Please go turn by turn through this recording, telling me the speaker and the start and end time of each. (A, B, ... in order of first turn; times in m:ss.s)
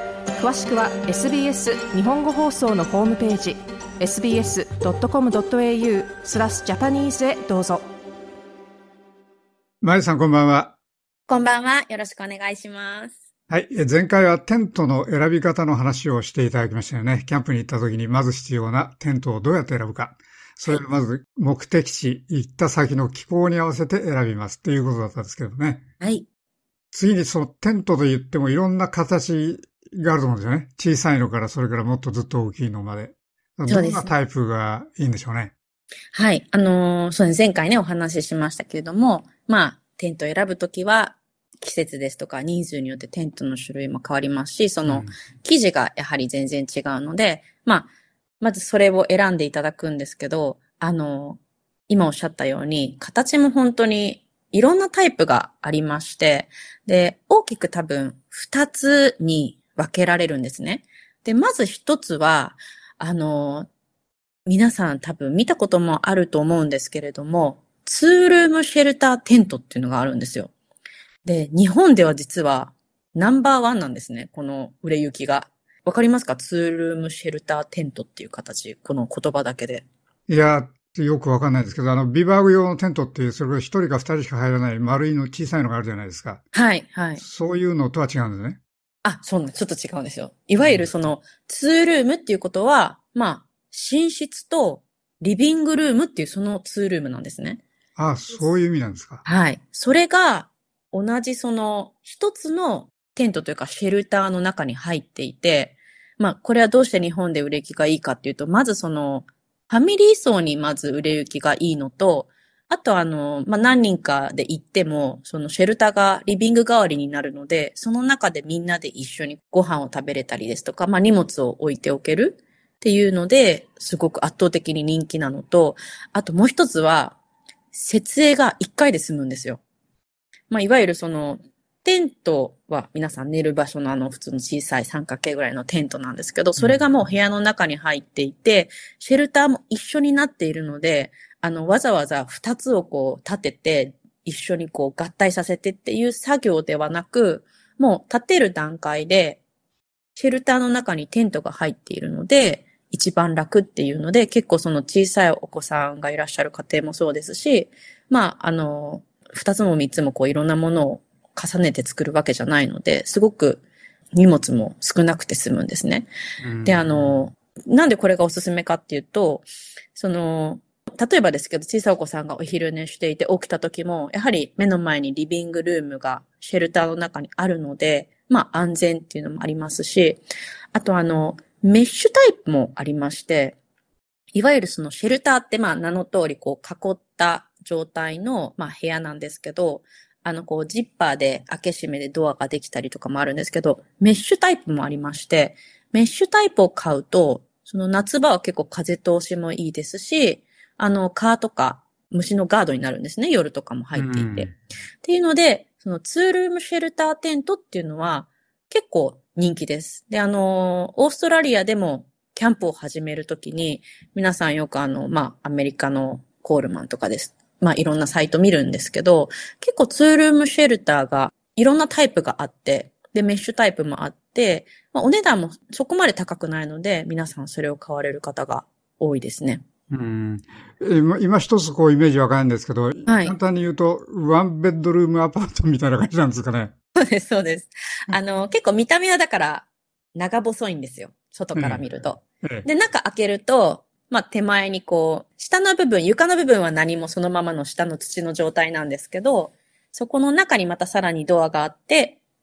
0:00.4-0:07.9 A
0:09.8-0:10.8 B
0:11.3-0:13.2 C
0:13.5-0:25.8 B
0:26.0-0:26.3 C
0:26.9-0:35.5 B
0:33.7-0:34.1 C
0:36.1-1:03.7 C
0:44.9-0:45.1 B
1:04.5-1:10.5 C
1:11.2-1:19.8 C
1:20.3-1:26.4 B
1:26.5-1:27.2 C
1:27.2-1:28.6 B
1:29.0-1:37.6 C
1:30.6-1:30.9 B
1:38.0-1:39.2 B
1:39.2-2:07.2 C
2:07.7-2:09.6 C
2:10.5-2:29.4 C
2:16.6-2:16.8 B
2:30.2-2:43.6 C
2:44.1-2:46.1 C
2:46.4-2:47.1 B
2:46.6-3:03.6 C
3:04.3-3:24.5 C
3:23.9-3:24.6 B
3:25.0-3:49.6 C
3:49.9-3:56.7 B
3:53.1-3:53.4 C
3:57.0-4:12.2 C
4:01.6-4:01.8 B